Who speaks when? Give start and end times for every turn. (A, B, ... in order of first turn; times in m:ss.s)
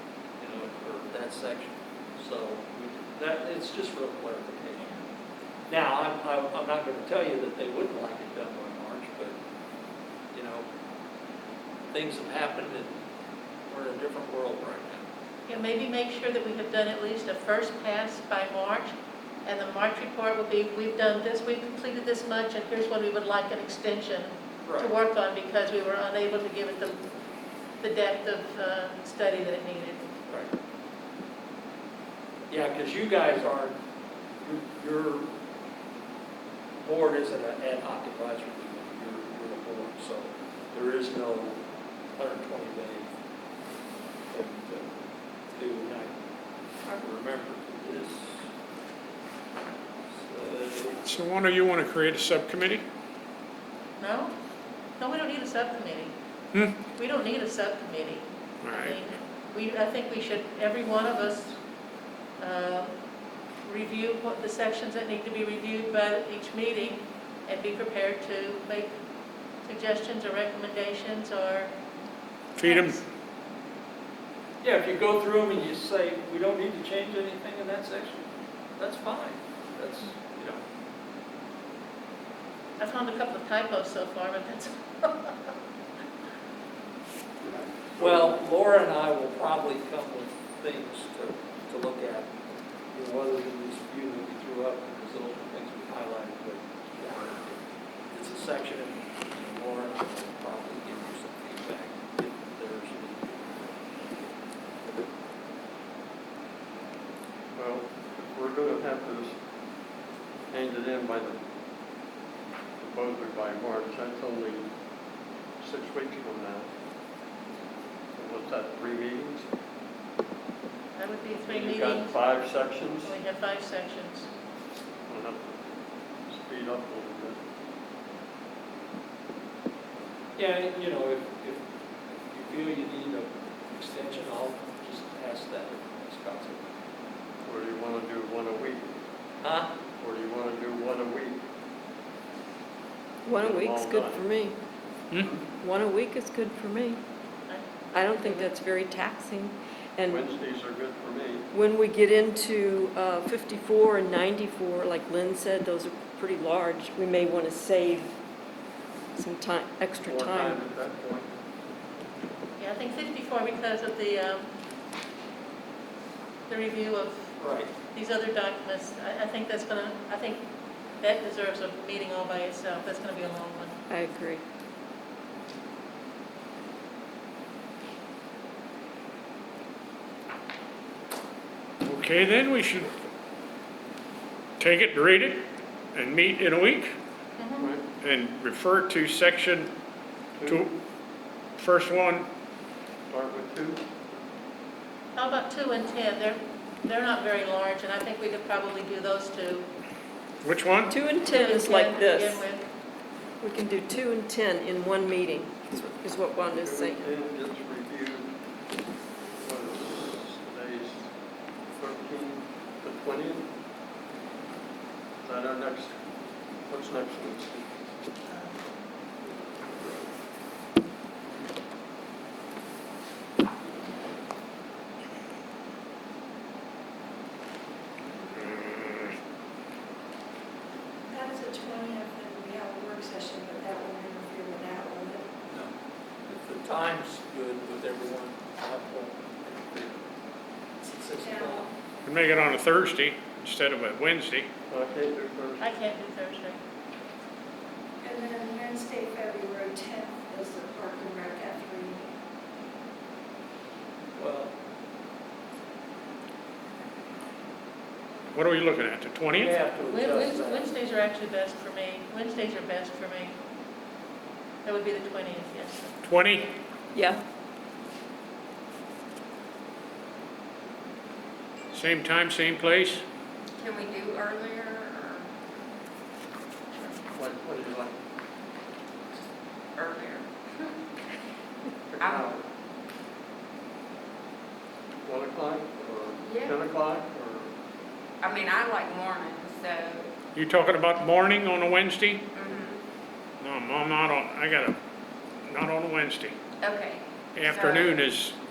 0:00.4-0:04.9 A
0:05.7-0:09.4 A
0:10.3-0:10.6 A
0:11.9-0:12.9 A
0:13.7-0:15.0 A
0:15.5-0:18.9 B
0:19.4-0:27.0 B
0:24.6-0:24.9 A
0:27.8-0:30.1 B
0:32.5-0:33.8 A
0:34.4-0:35.3 A
0:36.8-0:41.6 A
0:42.2-0:43.1 A
0:44.3-0:44.9 A
0:45.5-0:46.1 A
0:46.9-0:48.4 A
0:50.2-0:51.2 A
0:51.0-0:52.8 C
0:54.0-0:54.3 B
0:55.0-0:56.1 B
0:56.9-1:01.6 B
0:58.6-0:59.0 C
1:02.4-1:02.9 B
1:03.6-1:08.9 B
1:09.6-1:11.7 B
1:12.6-1:13.0 C
1:12.6-1:13.0 B
1:14.6-1:20.6 A
1:22.8-1:25.5 B
1:27.4-1:28.2 D
1:28.0-1:32.3 A
1:32.9-1:37.6 A
1:38.1-1:44.3 A
1:47.5-1:49.4 D
1:50.5-1:51.4 D
1:52.8-1:54.7 D
1:55.6-1:56.7 D
1:58.1-1:59.5 D
2:01.0-2:02.2 B
2:01.5-2:03.1 D
2:03.0-2:04.3 B
2:05.1-2:05.7 D
2:06.3-2:07.4 D
2:10.4-2:11.6 A
2:12.3-2:16.6 A
2:17.4-2:18.9 D
2:19.4-2:19.7 A
2:20.0-2:21.4 D
2:23.2-2:24.6 E
2:23.3-2:24.2 D
2:25.5-2:27.0 E
2:27.5-2:28.4 B
2:27.9-2:30.2 E
2:30.1-2:31.5 D
2:31.5-2:38.1 E
2:39.1-2:40.6 E
2:40.0-2:41.3 D
2:42.6-2:44.5 B
2:46.5-2:47.4 B
2:47.4-2:47.7 A
2:47.9-2:50.4 B
2:51.0-2:53.7 B
2:53.9-2:54.4 E
3:01.8-3:02.9 C
3:04.6-3:05.4 C
3:05.9-3:06.9 C
3:07.4-3:07.7 B
3:07.6-3:07.8 D
3:08.0-3:09.7 C
3:10.4-3:10.7 D
3:10.4-3:10.7 C
3:11.6-3:12.3 C
3:13.1-3:13.8 D
3:15.1-3:19.7 B
3:20.4-3:20.9 C
3:20.8-3:22.4 E
3:21.2-3:22.6 B
3:23.4-3:27.1 E
3:26.4-3:28.3 D
3:29.4-3:31.1 D
3:31.8-3:33.5 D
3:35.2-3:36.0 D
3:36.7-3:37.7 D
3:38.3-3:38.5 B
3:51.1-3:55.2 F
3:56.3-4:00.1 A
4:00.8-4:01.7 A
4:01.2-4:01.7 F
4:02.0-4:04.5 C
4:04.7-4:05.7 D
4:05.6-4:06.6 B
4:08.0-4:12.1 F
4:14.1-4:14.5 A
4:18.3-4:19.6 C
4:19.3-4:20.7 A
4:19.9-4:23.3 B
4:24.6-4:26.0 B
4:26.0-4:26.5 C
4:26.9-4:27.2 E
4:31.7-4:33.0 C
4:33.6-4:35.3 G
4:37.1-4:37.9 D
4:39.8-4:40.7 G
4:41.9-4:42.4 D
4:42.0-4:42.3 G
4:45.0-4:47.5 D
4:46.2-4:46.6 G
4:48.2-4:50.1 G
4:50.3-4:52.3 C
4:52.3-4:52.8 G
4:53.4-4:54.8 C
4:55.5-4:56.4 C
4:56.6-4:58.0 G
4:57.3-4:58.4 C